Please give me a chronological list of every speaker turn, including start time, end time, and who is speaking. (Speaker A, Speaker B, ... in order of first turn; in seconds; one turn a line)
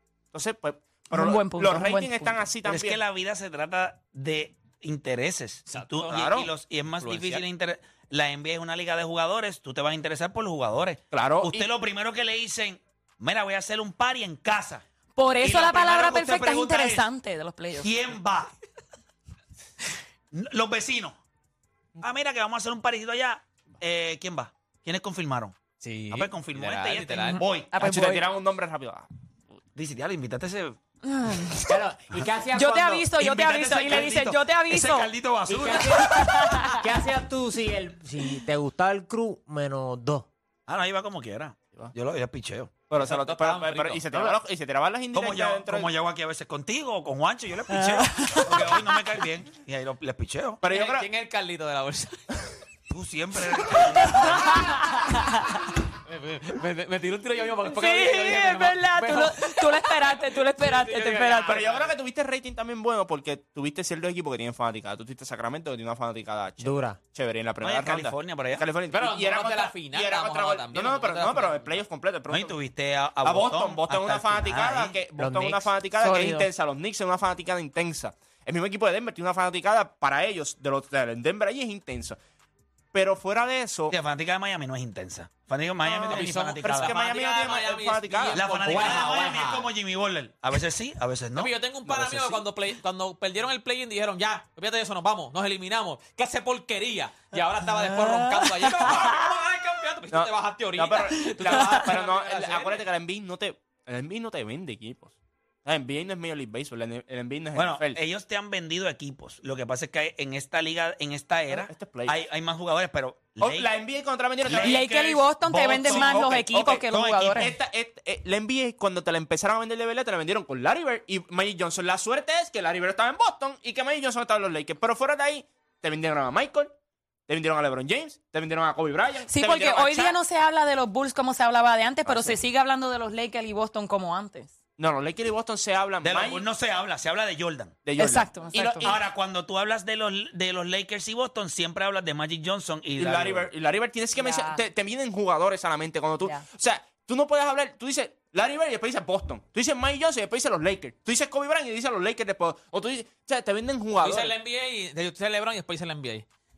Speaker A: 0.3-3.0
Speaker B: 1.1-2.5
Speaker C: 2.6-14.8
Speaker D: 5.7-6.5
Speaker A: 6.1-6.5
Speaker D: 7.0-7.4
Speaker A: 11.1-11.6
Speaker B: 15.2-18.2
Speaker C: 15.4-17.1
Speaker C: 17.8-18.5
Speaker C: 20.3-21.2
Speaker C: 22.0-25.6
Speaker D: 25.8-27.4
Speaker C: 26.1-27.8
Speaker B: 27.4-28.2
Speaker A: 27.8-29.1
Speaker C: 29.7-30.8
Speaker B: 31.1-31.7
Speaker E: 31.6-33.1
Speaker B: 32.5-35.1
Speaker C: 33.2-36.6
Speaker E: 35.5-40.3
Speaker B: 36.1-36.8
Speaker C: 40.7-42.7
Speaker A: 42.9-45.9
Speaker D: 43.0-44.3
Speaker C: 45.1-50.6
Speaker B: 47.9-48.7
Speaker A: 50.6-51.1
Speaker D: 50.6-52.4
Speaker C: 52.9-54.6
Speaker B: 54.0-55.5
Speaker D: 54.1-55.1
Speaker D: 56.0-61.9
Speaker B: 57.6-61.6
Speaker A: 61.4-72.6
Speaker E: 66.6-67.0
Speaker C: 67.6-68.7
Speaker D: 68.9-71.8
Speaker C: 72.3-75.0
Speaker A: 73.2-82.2
Speaker E: 75.2-76.5
Speaker A: 82.9-84.0
Speaker C: 83.9-86.8
Speaker A: 85.8-88.5
Speaker D: 86.0-89.3
Speaker C: 88.3-92.2
Speaker E: 88.6-89.7
Speaker D: 91.3-102.8
Speaker A: 92.0-92.4
Speaker A: 100.1-108.0
Speaker C: 107.5-113.7
Speaker A: 111.5-112.2
Speaker A: 113.4-114.7
Speaker C: 114.4-117.2
Speaker B: 114.6-117.6
Speaker A: 115.5-126.7
Speaker A: 127.3-130.2
Speaker B: 129.3-134.5
Speaker A: 132.0-132.4
Speaker A: 134.8-136.4
Speaker C: 136.0-137.7
Speaker A: 137.8-138.9
Speaker B: 138.0-139.0
Speaker C: 138.8-143.5
Speaker A: 143.0-154.3
Speaker B: 144.1-144.6
Speaker B: 146.2-146.4
Speaker D: 154.0-156.2